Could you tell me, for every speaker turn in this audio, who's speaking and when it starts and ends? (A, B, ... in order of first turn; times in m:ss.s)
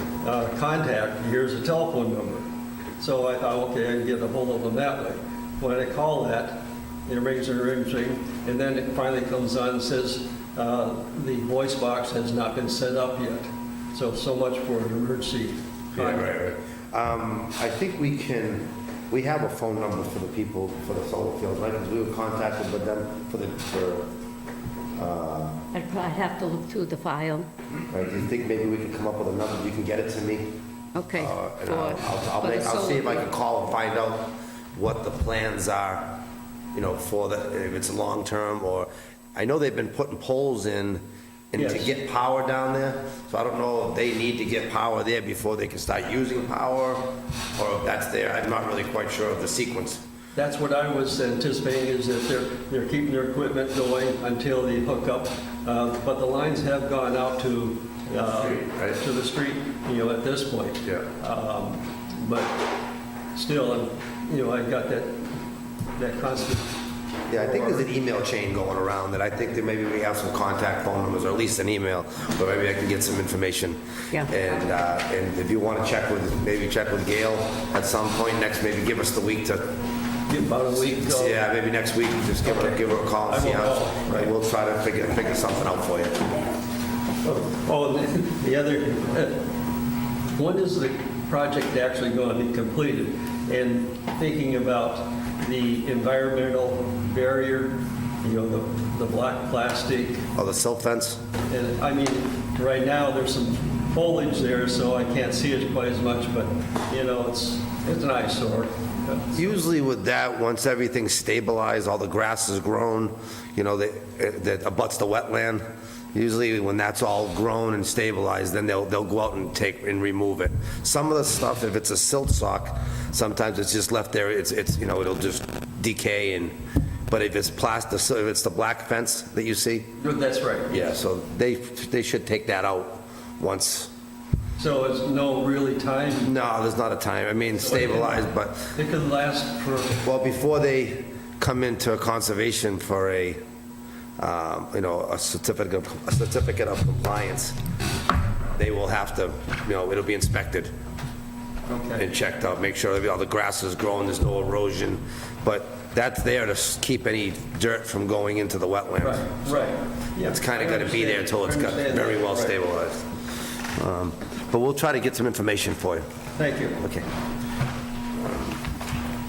0:00.2-0:02.5 A
0:03.0-0:16.3 A
0:16.0-0:24.1 B
0:25.0-0:25.6 B
0:25.7-0:27.5 C
0:27.9-0:30.6 B
0:31.0-0:33.2 C
0:31.1-0:36.2 B
0:36.7-0:50.0 B
0:41.5-0:41.9 A
0:50.3-1:02.6 A
0:58.3-0:59.0 B
1:03.3-1:05.4 A
1:06.0-1:06.8 A
1:07.3-1:19.7 B
1:07.3-1:07.9 A
1:20.3-1:21.4 A
1:21.0-1:26.3 B
1:22.4-1:24.3 A
1:27.2-1:29.5 A
1:30.3-1:40.2 A
1:40.3-1:41.2 B
1:41.5-1:49.6 A
1:49.4-2:06.6 B
2:07.1-2:09.9 B
2:10.0-2:10.9 A
2:10.7-2:13.9 B
2:14.6-2:16.6 A
2:16.2-2:18.7 B
2:17.5-2:20.0 A
2:20.0-2:23.4 B
2:24.2-2:27.6 B
2:28.6-2:30.7 B
2:31.7-2:32.1 A
2:32.0-2:43.0 B
2:39.0-2:42.6 A
2:43.8-2:46.1 B
2:46.4-2:46.8 A
2:46.8-2:47.1 B
2:48.2-2:48.6 B